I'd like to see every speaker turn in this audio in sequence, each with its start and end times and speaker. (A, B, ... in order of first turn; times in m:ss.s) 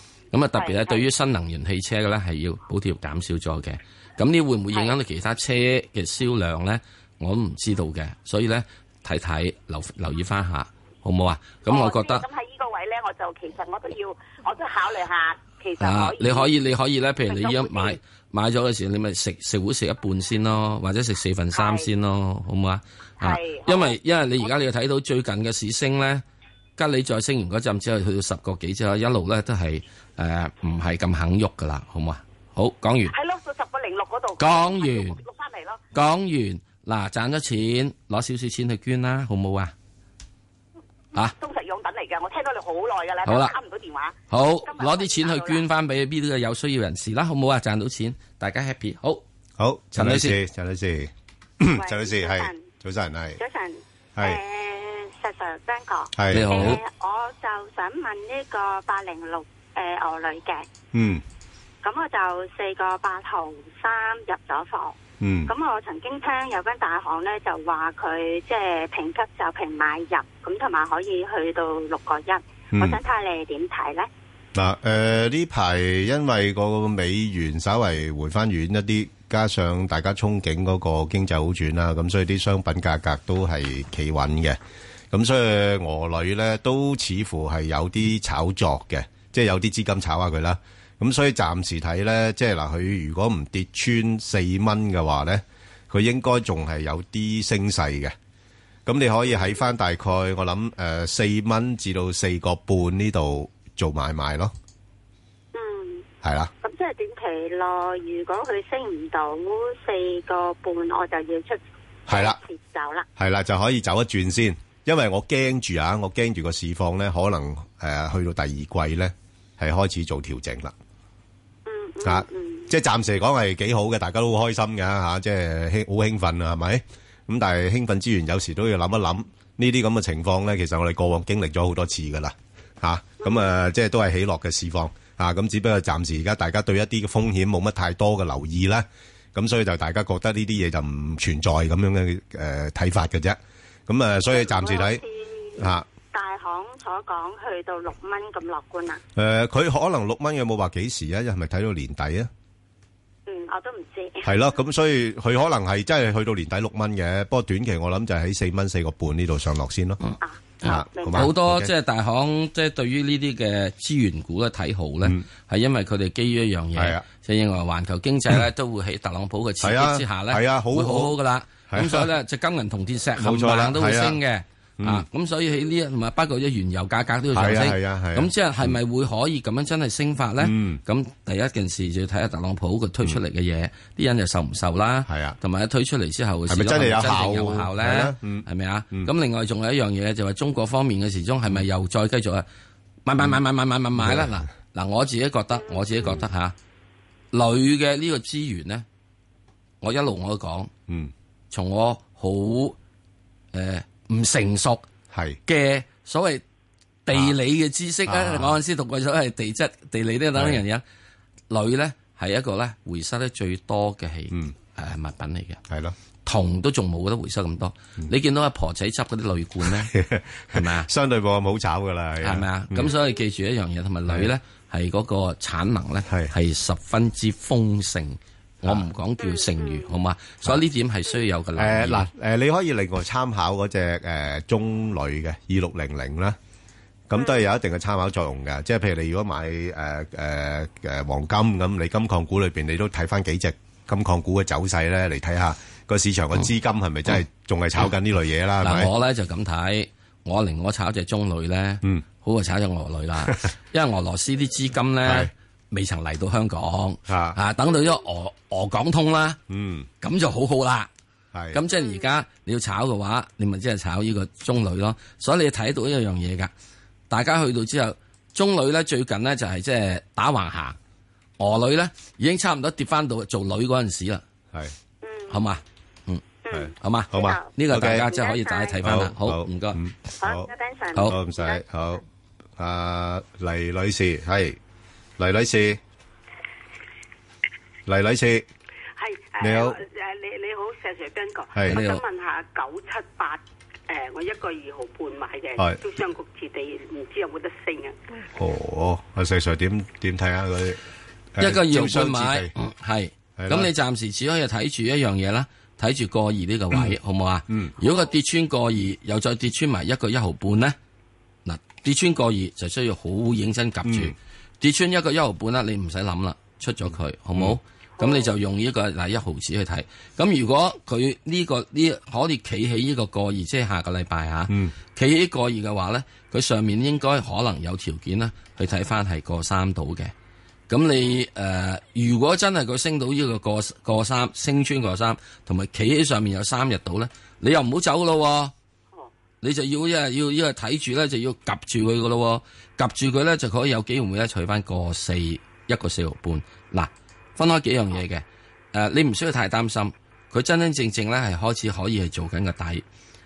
0:00.3-0:12.2 A
0:00.5-0:01.0 B
0:11.6-0:16.5 B
0:15.8-0:26.2 A
0:17.2-0:18.0 B
0:21.5-0:21.9 B
0:23.2-0:24.5 B
0:26.8-0:33.1 A
0:33.1-0:35.8 B
0:34.4-0:35.2 A
0:35.9-0:39.7 A
0:41.2-0:45.6 B
0:43.2-0:43.5 A
0:44.3-0:49.2 A
0:49.6-0:53.4 C
0:50.0-0:50.4 A
0:51.7-0:52.7 D
0:53.4-1:00.7 D
0:56.1-0:56.8 C
0:56.3-0:56.8 A
1:00.9-1:01.2 C
1:01.8-1:14.1 D
1:05.2-1:05.5 C
1:12.7-1:13.0 C
1:14.5-1:24.6 C
1:25.1-1:38.1 C
1:38.8-1:44.5 C
1:45.5-1:46.0 D
1:46.2-1:46.5 C
1:46.6-1:53.0 D
1:52.1-1:52.4 C
1:53.2-2:00.7 C
2:01.6-2:02.7 D
2:02.0-2:25.0 C
2:24.3-2:29.0 D
2:25.6-2:25.8 C
2:29.2-2:32.3 C
2:33.3-2:34.4 D
2:34.2-2:40.0 C
2:40.2-2:41.3 D
2:40.6-2:41.7 C
2:40.6-3:12.4 A
2:46.8-2:47.0 C
2:49.6-2:51.2 C
2:51.7-2:52.1 C
2:53.2-2:54.2 C
2:54.8-2:55.0 C
2:57.3-2:58.8 C
3:00.4-3:00.8 C
3:05.1-3:05.4 C
3:06.5-3:09.1 C
3:13.0-3:16.5 A
3:14.0-3:14.3 C
3:17.3-3:18.8 A
3:19.8-3:20.7 A
3:21.5-3:22.8 A
3:23.5-3:24.8 A
3:25.1-3:25.4 C
3:25.4-3:26.4 A
3:27.0-3:30.8 A
3:28.1-3:28.6 C
3:30.3-3:30.6 C
3:31.5-3:35.6 A
3:35.7-3:36.0 C
3:36.2-3:39.9 A
3:39.6-3:42.9 C
3:40.5-3:40.9 A
3:42.2-3:52.1 A
3:49.2-3:49.9 D
3:51.6-3:56.4 C
3:57.1-4:08.9 C
4:08.6-4:19.4 A
4:15.0-4:15.3 C
4:17.1-4:17.4 C
4:19.5-4:19.9 C
4:20.0-4:20.9 A
4:21.3-4:21.6 C
4:21.5-4:26.5 A
4:27.1-4:30.8 A
4:31.4-4:34.2 A
4:35.0-4:35.5 D
4:35.3-4:39.8 A
4:36.4-4:38.8 D
4:36.5-4:38.1 C
4:38.8-4:40.5 C
4:40.2-4:41.6 D
4:41.0-4:42.0 C
4:42.6-4:44.6 C
4:45.2-4:45.8 C
4:47.8-4:48.5 C
4:49.0-4:58.0 E
4:49.4-4:49.8 C
4:51.5-4:51.8 C
4:51.7-4:52.0 A
4:58.3-5:00.8 C
5:01.3-5:02.5 C
5:01.4-5:10.8 A
5:03.4-5:03.7 C
5:07.5-5:07.7 C
5:11.4-5:30.1 A
5:13.8-5:14.1 C
5:24.5-5:24.7 C
5:30.7-5:38.5 A
5:39.4-5:52.8 A